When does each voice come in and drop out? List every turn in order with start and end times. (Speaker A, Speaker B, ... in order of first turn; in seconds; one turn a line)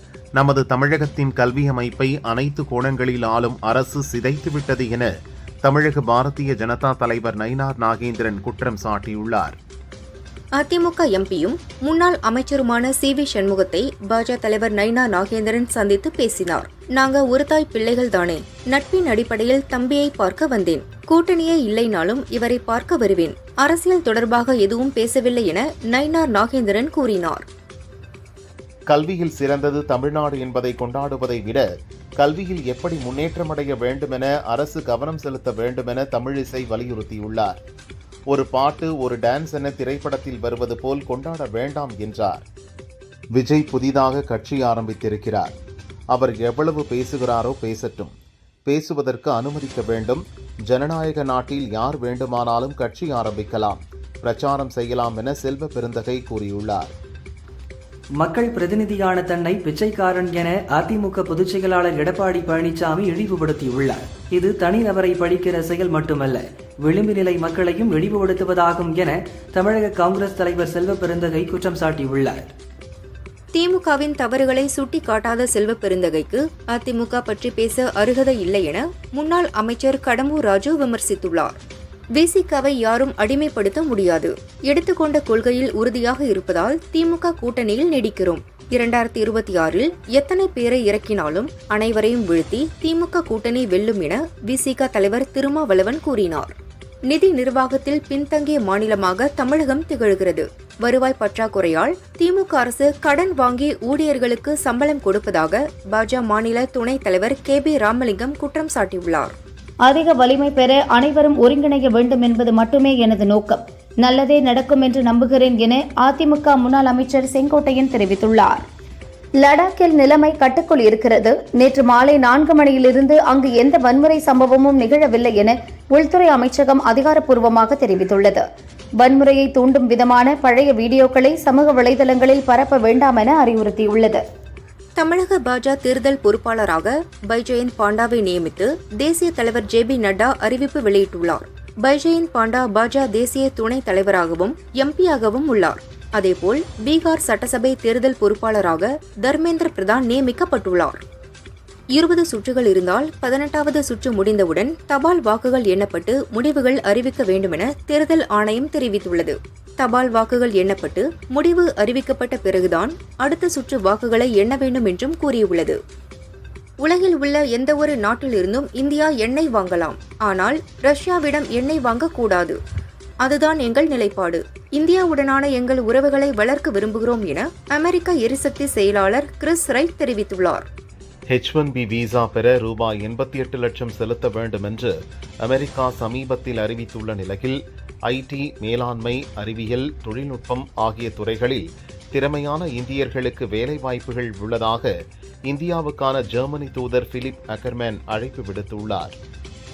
Speaker A: 0.4-5.1
Speaker A: 5.6-9.6
Speaker B: 10.6-27.4
Speaker A: 28.9-31.7
Speaker A: 32.2-37.6
Speaker A: 38.3-42.5
Speaker A: 43.4-45.5
Speaker A: 46.1-48.1
Speaker A: 48.7-56.9
Speaker C: 58.2-72.5
Speaker B: 73.5-81.6
Speaker B: 82.2-96.5
Speaker B: 97.1-109.3
Speaker D: 109.8-118.7
Speaker D: 119.4-128.4
Speaker D: 129.0-134.2
Speaker B: 135.0-151.0
Speaker B: 151.9-165.8
Speaker B: 166.8-172.6
Speaker B: 173.2-180.7
Speaker A: 181.3-194.9
Speaker A: 195.5-199.2